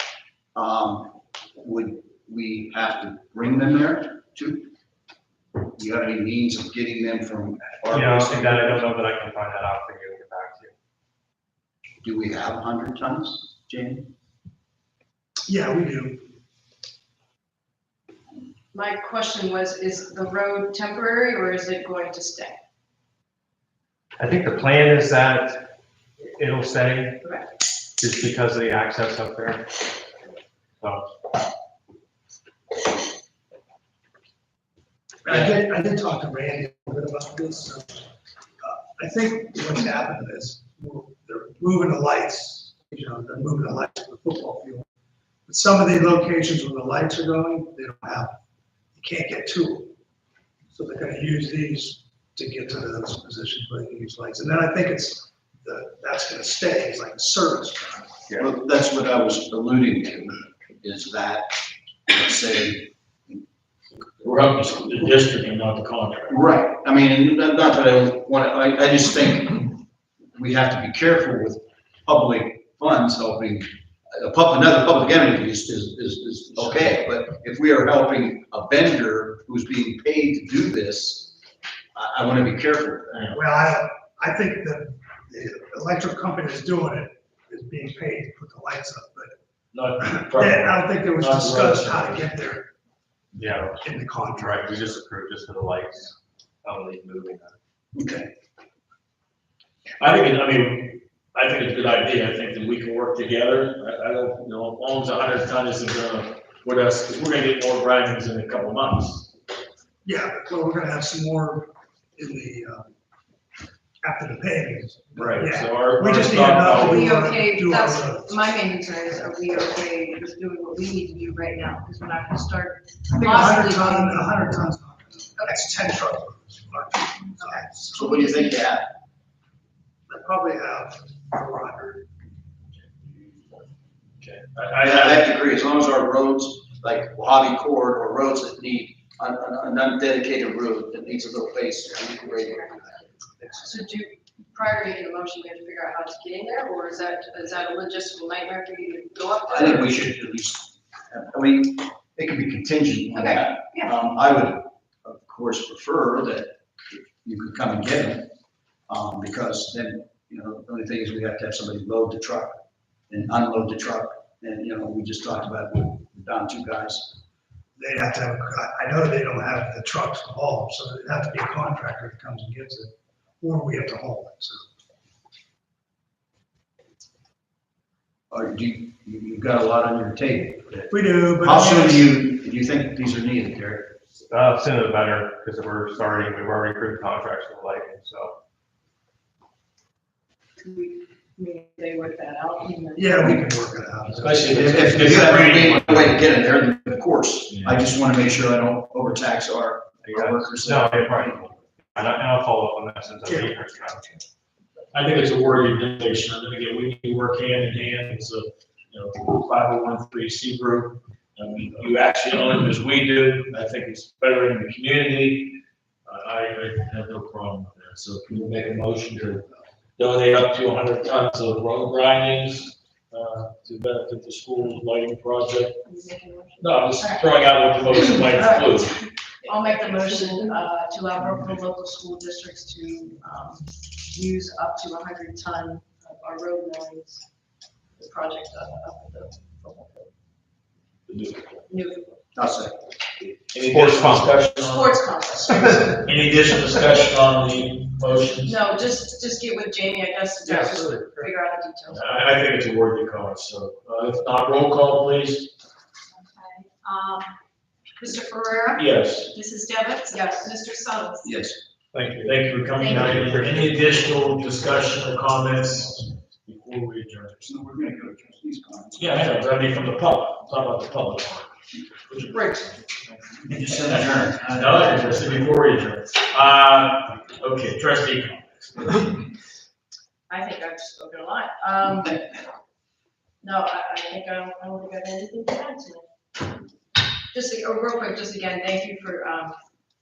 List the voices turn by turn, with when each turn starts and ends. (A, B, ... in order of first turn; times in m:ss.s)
0:00.5-0:04.7 A
0:05.7-0:08.8 A
0:07.9-0:10.7 B
0:12.0-0:14.1 A
0:15.5-0:16.3 C
0:18.7-0:22.6 D
0:24.2-0:25.7 B
0:26.2-0:27.2 B
0:27.2-0:27.5 D
0:28.0-0:29.6 B
0:30.8-0:31.0 B
0:35.2-0:38.1 C
0:35.3-0:35.5 B
0:38.6-0:44.8 C
0:45.5-0:48.4 C
0:48.9-0:49.9 C
0:50.7-0:58.1 C
0:58.4-1:01.6 A
1:02.1-1:03.3 A
1:04.2-1:06.3 E
1:06.3-1:09.7 A
1:10.3-1:21.4 A
1:21.9-1:23.4 A
1:23.3-1:29.4 C
1:29.7-1:32.2 E
1:30.0-1:32.7 C
1:33.3-1:33.8 B
1:33.8-1:35.0 C
1:34.3-1:37.6 B
1:37.9-1:38.3 A
1:40.0-1:49.3 E
1:50.0-1:52.9 C
1:54.0-1:58.6 C
1:55.2-1:57.1 E
1:56.8-2:04.2 D
2:03.1-2:08.1 C
2:07.9-2:08.9 A
2:08.2-2:08.6 D
2:10.1-2:12.0 C
2:14.2-2:15.3 E
2:14.8-2:23.6 A
2:22.0-2:23.1 D
2:23.6-2:29.9 D
2:29.5-2:38.3 A
2:33.1-2:33.9 D
2:38.9-2:47.2 A
2:47.8-2:54.6 C
2:58.3-3:03.9 A
3:00.9-3:02.1 C
3:04.1-3:08.3 B
3:10.6-3:13.4 D
3:13.0-3:15.1 C
3:14.0-3:16.2 E
3:14.5-3:21.5 A
3:17.5-3:17.8 E
3:20.0-3:24.0 B
3:23.2-3:24.2 C
3:24.9-3:39.4 E
3:40.0-3:45.8 E
3:45.8-3:57.2 D
3:46.6-3:49.0 E
3:49.4-3:50.6 F
3:58.0-4:00.1 D
4:01.1-4:01.6 E
4:01.7-4:02.2 D
4:02.3-4:02.7 A
4:03.5-4:05.0 E
4:03.6-4:04.4 B
4:04.6-4:06.0 D
4:05.5-4:05.9 B
4:06.0-4:08.6 E
4:08.4-4:12.1 D
4:10.4-4:11.3 B
4:11.9-4:15.5 E
4:16.2-4:17.3 F
4:18.0-4:21.3 F
4:18.7-4:19.3 E
4:20.1-4:20.6 D
4:21.2-4:21.6 A
4:21.9-4:24.3 B
4:22.1-4:27.4 E
4:27.4-4:29.3 A
4:28.9-4:31.5 E
4:32.0-4:39.2 E
4:33.4-4:35.3 A
4:40.3-4:42.2 D
4:43.4-4:46.0 D
4:47.3-4:49.6 D